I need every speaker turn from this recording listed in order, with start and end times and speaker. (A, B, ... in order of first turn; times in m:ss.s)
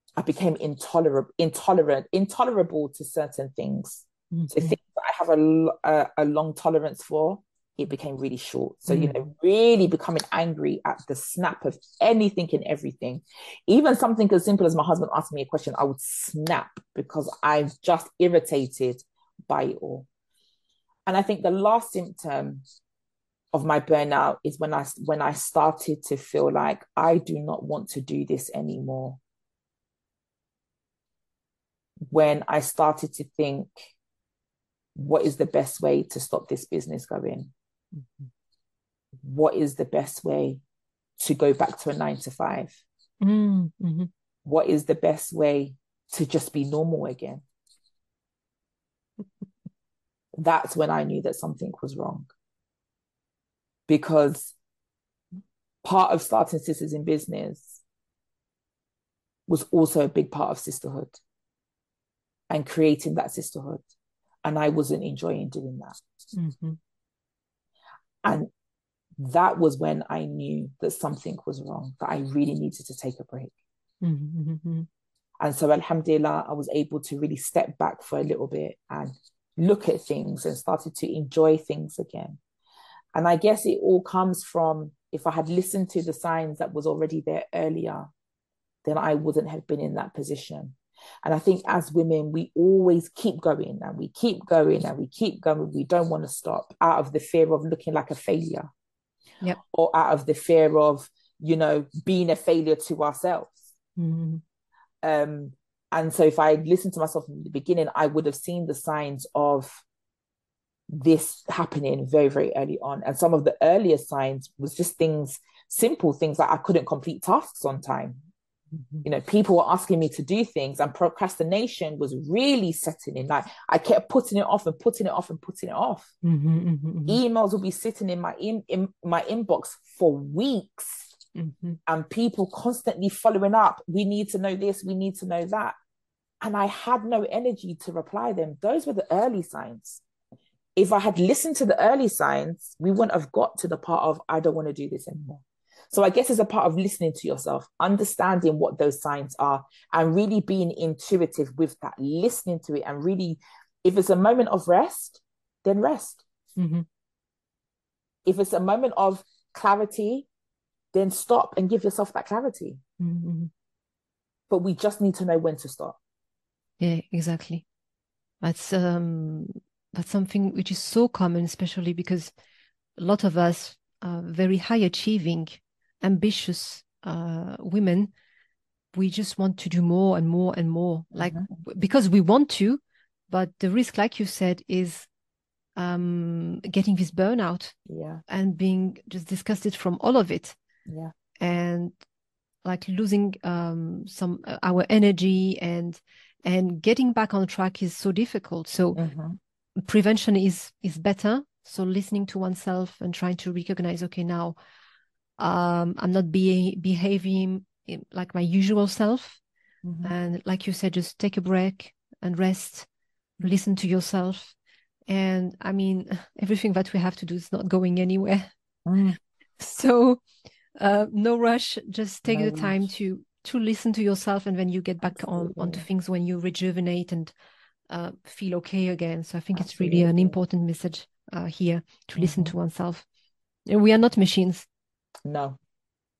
0:00.2-0:20.1 A
0:04.3-0:04.8 B
0:08.9-0:09.2 B
0:21.1-0:22.6 A
0:23.5-0:29.2 A
0:32.1-0:33.9 A
0:34.9-0:37.5 A
0:37.9-0:38.3 B
0:39.2-0:40.6 A
0:41.2-0:42.8 A
0:43.2-0:44.1 B
0:44.4-0:47.4 A
0:50.4-0:52.3 A
0:53.9-0:54.5 A
0:55.8-0:57.8 A
0:59.5-1:01.2 A
1:02.5-1:03.9 A
1:04.4-1:06.0 A
1:06.3-1:06.8 B
1:08.2-1:08.5 A
1:09.2-1:13.5 A
1:14.0-1:14.9 B
1:15.4-1:22.4 A
1:23.1-1:28.1 A
1:28.8-1:38.7 A
1:39.7-1:43.7 A
1:44.0-1:44.4 B
1:45.0-1:49.8 A
1:50.9-1:58.2 A
1:58.7-1:59.0 B
1:59.0-2:06.1 A
2:06.2-2:07.2 B
2:07.1-2:11.1 A
2:11.3-2:11.8 B
2:11.9-2:15.8 A
2:16.4-2:20.0 A
2:20.8-2:36.2 A
2:36.6-2:36.8 B
2:38.2-2:40.3 A
2:40.9-2:42.8 A
2:43.0-2:43.5 B
2:44.5-2:46.0 A
2:46.8-2:47.6 B
2:48.4-2:52.3 B
2:53.0-2:58.1 B
2:58.9-3:05.1 B
3:01.2-3:01.5 A
3:05.8-3:07.8 B
3:07.9-3:08.2 A
3:08.3-3:10.6 B
3:10.9-3:11.1 A
3:11.4-3:12.0 B
3:12.6-3:19.0 B
3:19.0-3:19.4 A
3:19.8-3:24.6 B
3:25.4-3:29.4 B
3:29.8-3:30.1 A
3:30.0-3:32.9 B
3:33.4-3:34.6 B
3:35.1-3:38.5 B
3:38.8-3:39.2 A
3:39.6-3:40.2 B
3:40.8-3:47.3 B
3:42.2-3:42.9 A
3:45.0-3:45.8 A
3:47.9-3:53.0 B
3:49.5-3:50.4 A
3:52.2-3:52.5 A
3:53.7-3:54.7 B
3:55.2-3:55.6 A